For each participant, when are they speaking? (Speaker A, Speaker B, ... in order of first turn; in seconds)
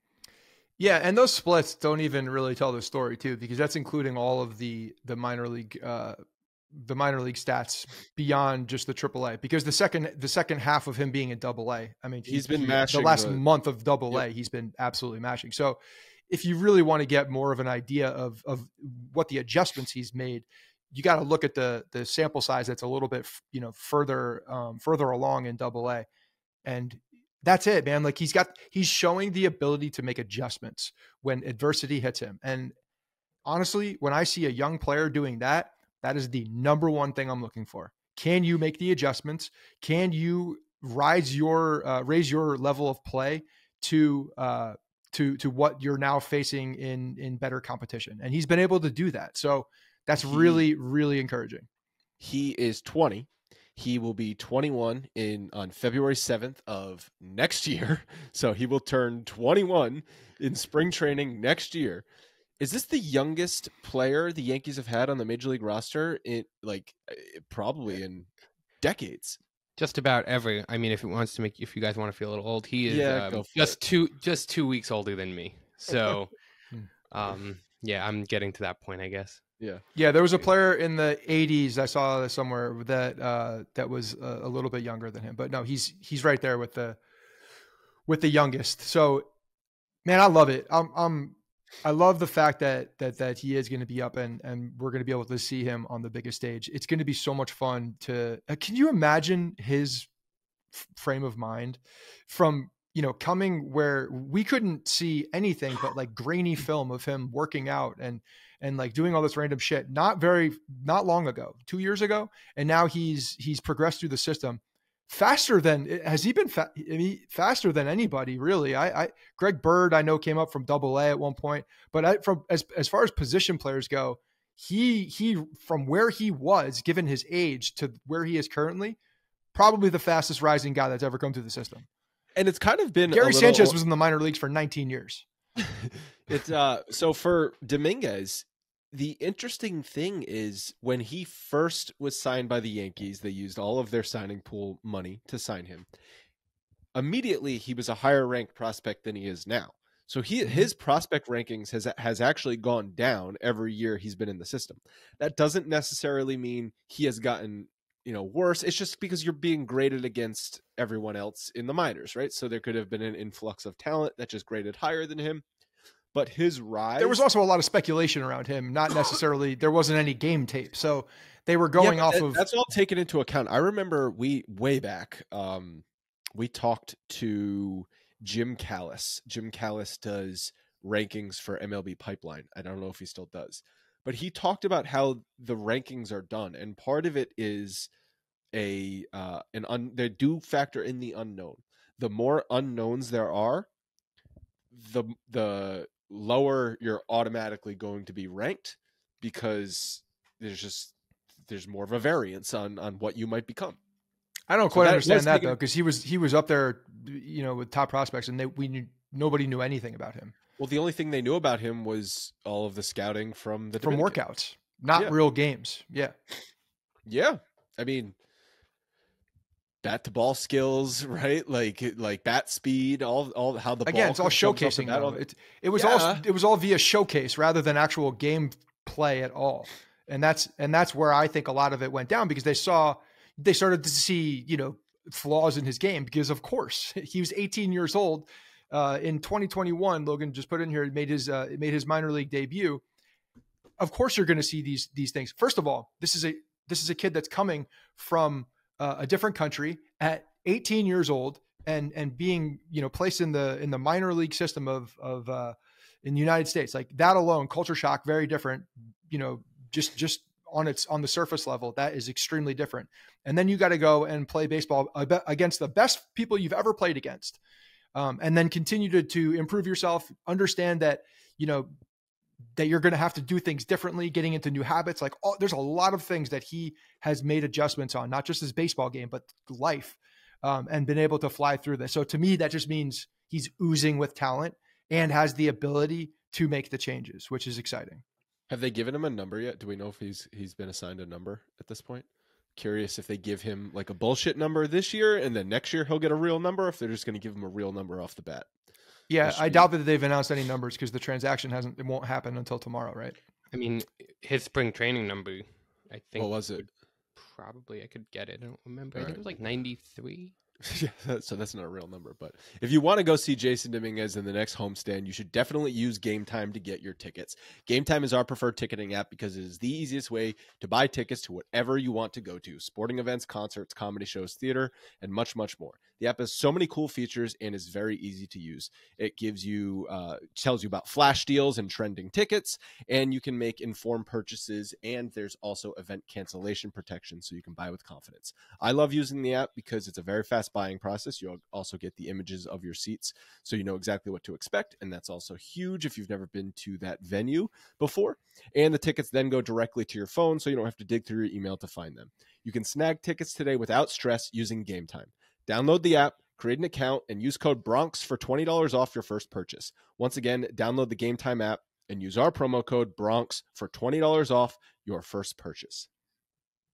Speaker A: 0.8-6.2, 6.7-26.1, 26.6-32.7, 33.4-51.7, 79.9-87.0, 88.1-89.3, 90.0-100.1, 100.8-129.0, 129.5-131.9, 133.1-135.2, 150.4-150.7, 167.0-172.4, 204.5-210.3, 213.8-216.2, 223.8-242.8, 243.8-267.4, 267.9-271.7, 272.6-288.0, 299.1-303.2
Speaker B: 12.2-13.4, 50.2-50.6, 52.2-62.0, 62.6-68.3, 68.8-69.4, 72.8-73.8, 132.3-133.8, 135.9-145.9, 146.9-165.4, 166.1-167.2, 171.8-175.8, 176.3-187.9, 188.5-193.7, 194.7-200.9, 201.4-203.8, 204.7-205.6, 210.6-214.2, 217.1-218.1, 219.8-226.2, 288.5-298.5, 299.2-299.7, 306.1-306.6, 308.9-309.2, 310.6-365.9
Speaker C: 69.8-76.3, 77.1-79.5, 303.5-310.3